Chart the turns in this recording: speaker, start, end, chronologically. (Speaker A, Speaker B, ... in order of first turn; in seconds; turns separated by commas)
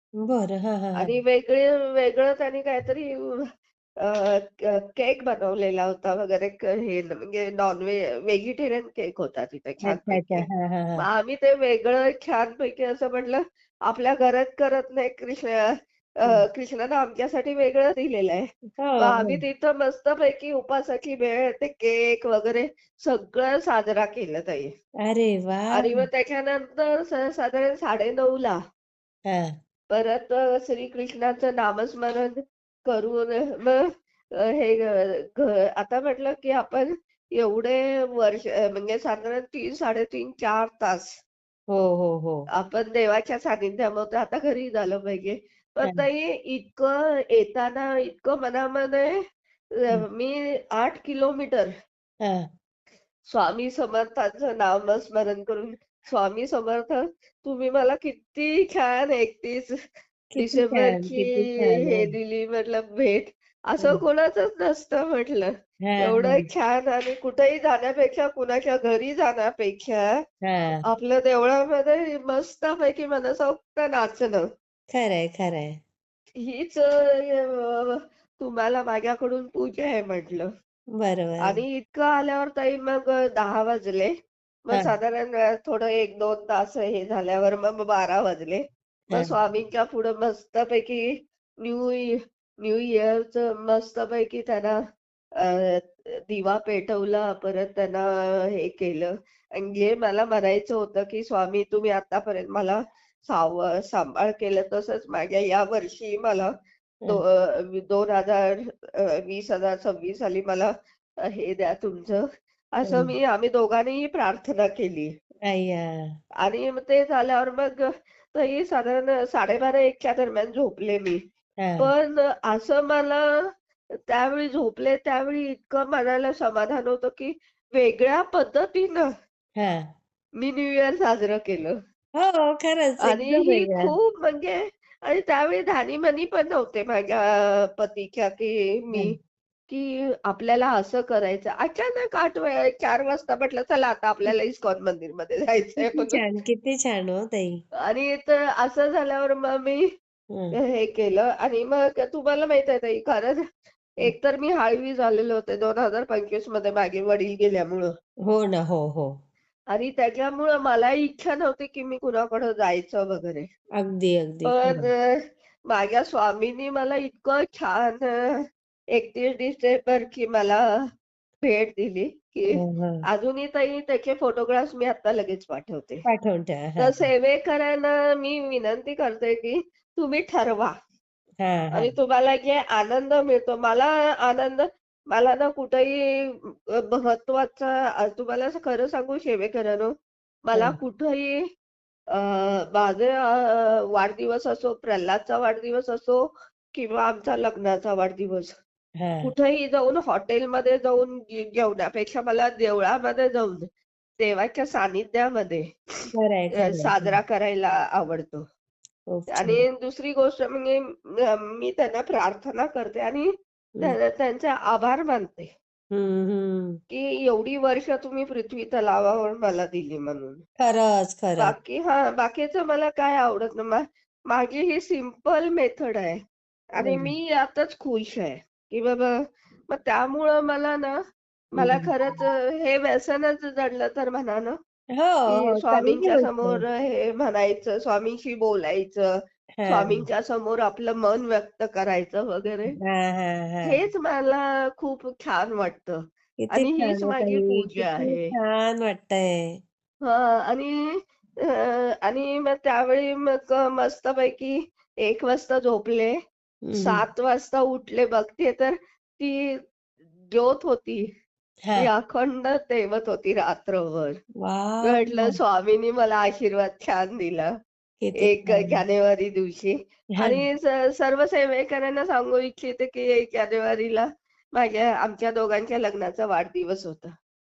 Speaker A: 0.2-1.1, Speaker B: 1.0-3.4, Speaker B: 4.0-10.5, Speaker A: 9.8-11.0, Speaker B: 11.0-15.7, Speaker B: 16.2-18.5, Speaker A: 18.8-19.4, Speaker B: 19.0-24.7, Speaker A: 25.0-26.1, Speaker B: 25.7-28.6, Speaker A: 29.3-29.5, Speaker B: 29.9-33.9, Speaker B: 34.4-41.1, Speaker A: 41.7-42.4, Speaker B: 42.5-49.2, Speaker B: 49.8-51.7, Speaker A: 52.2-52.5, Speaker B: 53.3-59.8, Speaker A: 60.3-62.1, Speaker B: 60.4-70.1, Speaker A: 65.8-66.5, Speaker A: 70.4-70.8, Speaker B: 70.9-74.5, Speaker A: 74.9-75.8, Speaker B: 76.4-80.5, Speaker A: 81.0-81.6, Speaker B: 81.4-84.1, Speaker B: 84.7-91.0, Speaker B: 91.6-94.8, Speaker B: 95.4-106.5, Speaker B: 107.1-110.7, Speaker B: 111.2-112.2, Speaker B: 112.8-115.1, Speaker A: 112.8-113.1, Speaker A: 115.5-116.0, Speaker B: 116.4-121.2, Speaker A: 121.6-121.9, Speaker B: 121.8-123.4, Speaker B: 124.1-129.1, Speaker A: 129.6-129.8, Speaker B: 130.4-131.8, Speaker A: 132.2-133.9, Speaker B: 133.0-139.2, Speaker B: 139.7-146.2, Speaker A: 145.8-147.6, Speaker B: 147.8-149.8, Speaker B: 150.5-153.4, Speaker B: 154.0-157.9, Speaker A: 158.3-159.1, Speaker B: 159.7-163.5, Speaker A: 163.8-164.9, Speaker B: 164.5-168.4, Speaker B: 168.9-170.6, Speaker B: 171.4-176.1, Speaker A: 172.5-173.0, Speaker A: 176.1-177.0, Speaker B: 176.8-180.7, Speaker A: 181.4-181.9, Speaker B: 181.7-189.9, Speaker B: 190.5-191.4, Speaker B: 192.1-196.2, Speaker B: 196.7-198.5, Speaker A: 199.0-199.3, Speaker B: 199.2-203.7, Speaker B: 204.2-208.4, Speaker A: 206.2-207.2, Speaker A: 209.1-209.7, Speaker B: 209.3-213.3, Speaker B: 213.8-215.5, Speaker A: 215.9-216.8, Speaker B: 216.9-220.4, Speaker A: 220.6-221.5, Speaker B: 221.4-226.2, Speaker B: 226.8-229.1, Speaker A: 226.8-227.1, Speaker B: 229.7-231.0, Speaker B: 231.6-234.6, Speaker A: 231.6-231.9, Speaker A: 235.0-236.6, Speaker B: 235.3-239.1, Speaker A: 239.6-240.1, Speaker B: 239.7-242.8, Speaker A: 242.8-243.8, Speaker B: 243.6-248.3, Speaker A: 246.4-249.6, Speaker B: 250.1-250.8, Speaker B: 251.5-256.1, Speaker A: 256.7-257.0, Speaker B: 256.8-259.6, Speaker B: 260.3-261.1, Speaker A: 261.6-261.9, Speaker B: 261.8-264.2, Speaker A: 264.4-265.4, Speaker B: 264.8-267.5, Speaker A: 268.0-268.8, Speaker B: 268.2-277.1, Speaker A: 270.2-270.4